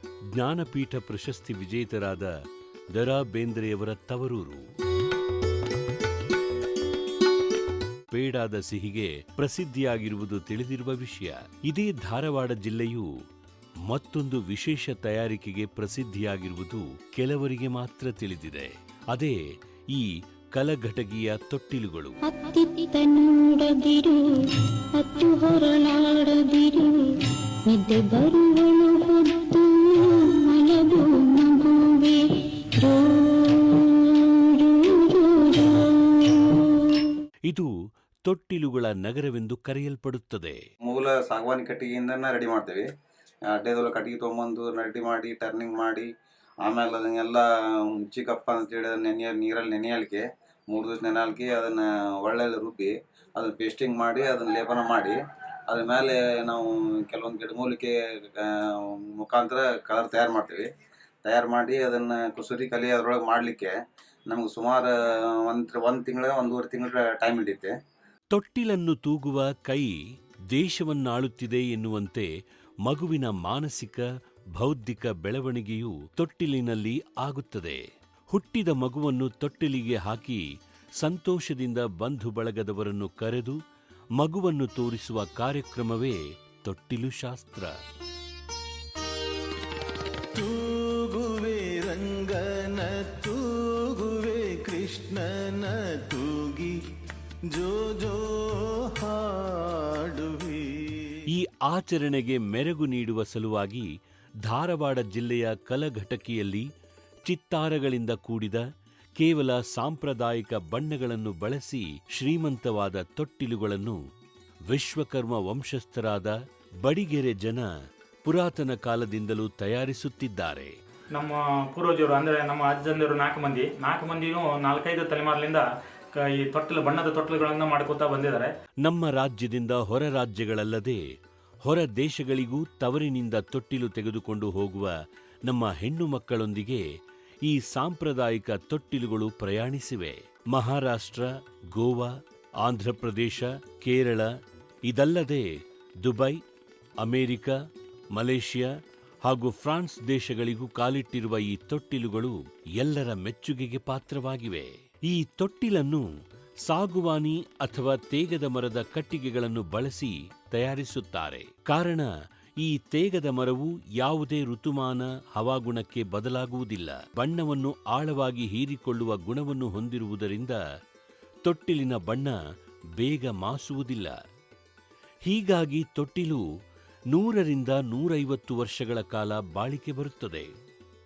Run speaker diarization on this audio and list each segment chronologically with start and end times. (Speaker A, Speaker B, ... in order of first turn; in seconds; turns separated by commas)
Speaker A: 0.3-2.3, Speaker A: 2.9-4.6, Speaker A: 8.1-13.1, Speaker A: 13.9-19.4, Speaker A: 19.9-22.2, Speaker B: 22.2-37.2, Speaker A: 37.5-37.7, Speaker A: 38.2-40.6, Speaker C: 40.9-42.9, Speaker C: 43.5-46.1, Speaker C: 46.6-55.2, Speaker C: 55.7-60.7, Speaker C: 61.2-63.8, Speaker C: 64.3-67.7, Speaker A: 68.3-70.0, Speaker A: 70.5-72.3, Speaker A: 72.8-80.4, Speaker A: 81.0-83.6, Speaker A: 84.2-87.7, Speaker D: 90.3-96.8, Speaker D: 97.5-101.2, Speaker A: 101.3-103.9, Speaker A: 104.4-106.7, Speaker A: 107.3-108.6, Speaker A: 109.2-114.0, Speaker A: 114.7-117.7, Speaker A: 118.2-120.7, Speaker E: 121.2-125.7, Speaker E: 126.2-128.5, Speaker A: 128.8-131.0, Speaker A: 131.6-136.8, Speaker A: 137.4-144.3, Speaker A: 144.9-145.5, Speaker A: 146.0-146.4, Speaker A: 147.0-147.6, Speaker A: 148.1-148.7, Speaker A: 149.2-156.1, Speaker A: 156.7-162.1, Speaker A: 162.6-170.6, Speaker A: 171.4-172.4, Speaker A: 173.0-174.2, Speaker A: 175.2-176.4, Speaker A: 177.1-180.5